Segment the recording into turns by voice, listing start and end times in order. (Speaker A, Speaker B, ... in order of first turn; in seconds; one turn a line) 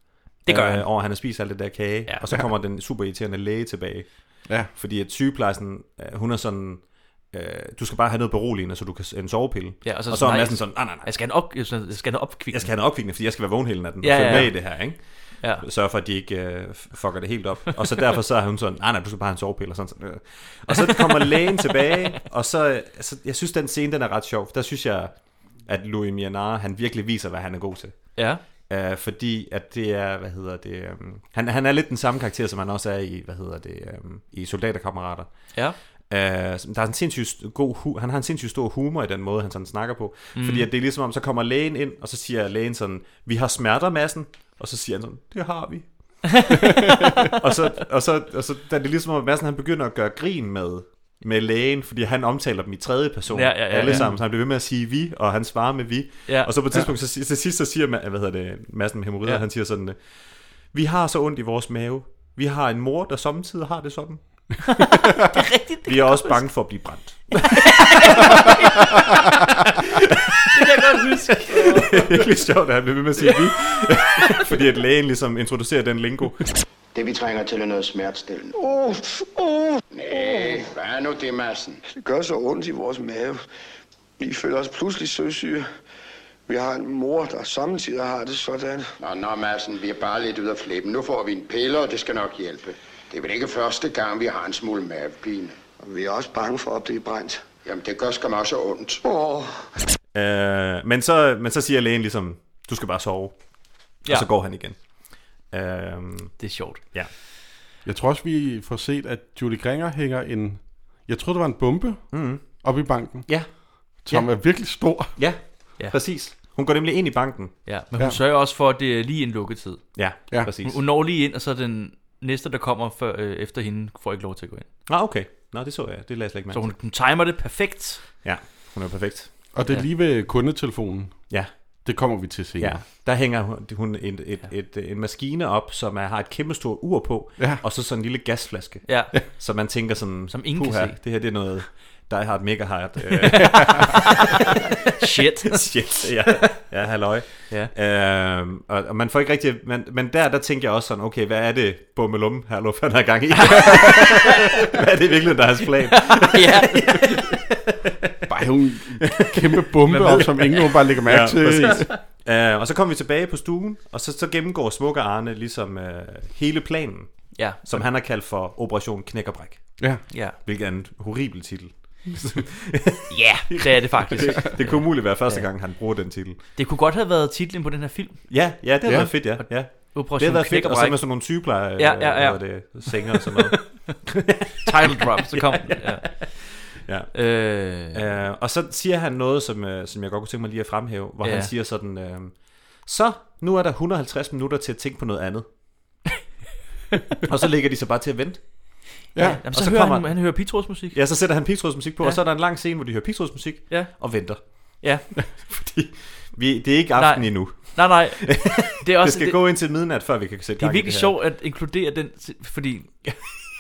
Speaker A: 0.5-0.9
Speaker B: 0.5-11.1
Speaker A: 2.1-2.3
Speaker A: 9.8-12.7
Speaker B: 12.5-35.3
Speaker A: 14.0-15.6
Speaker A: 21.1-21.4
Speaker A: 28.2-28.4
Speaker B: 36.1-46.5
Speaker A: 40.4-40.7
Speaker B: 47.3-64.7
Speaker A: 53.3-54.1
Speaker C: 53.9-54.2
Speaker A: 64.7-66.6
Speaker B: 65.9-68.5
Speaker A: 67.3-69.1
Speaker A: 70.5-72.0
Speaker B: 71.5-76.6
Speaker D: 76.9-78.9
Speaker D: 79.9-81.8
Speaker E: 80.1-80.5
Speaker E: 81.9-83.4
Speaker E: 84.2-85.7
Speaker E: 86.5-88.9
Speaker D: 89.0-95.6
Speaker E: 95.8-97.4
Speaker D: 97.6-99.0
Speaker E: 99.0-99.6
Speaker B: 100.1-107.1
Speaker A: 106.4-106.8
Speaker C: 107.8-115.2
Speaker B: 112.1-114.0
Speaker B: 115.2-117.7
Speaker A: 117.7-124.7
Speaker B: 120.0-120.8
Speaker B: 124.9-126.7
Speaker A: 126.5-128.0
Speaker B: 128.2-129.3
Speaker C: 129.5-132.8
Speaker B: 132.6-144.2
Speaker A: 138.9-139.4
Speaker A: 140.3-141.0
Speaker A: 143.3-144.1
Speaker A: 145.0-145.8
Speaker B: 145.5-157.4
Speaker A: 153.4-154.4
Speaker A: 156.1-157.4
Speaker C: 158.3-161.9
Speaker B: 159.0-176.4
Speaker A: 159.9-160.2
Speaker A: 170.1-170.4
Speaker A: 173.1-175.5
Speaker A: 176.6-178.6
Speaker B: 178.3-184.7
Speaker C: 178.8-179.4
Speaker A: 179.4-183.8
Speaker A: 184.6-186.4
Speaker B: 185.3-186.3
Speaker B: 186.8-195.5
Speaker A: 187.1-188.0
Speaker A: 191.2-191.5
Speaker B: 197.3-211.2
Speaker C: 199.2-199.4
Speaker A: 199.2-201.0
Speaker A: 203.7-205.1
Speaker A: 207.0-209.4
Speaker A: 210.6-213.3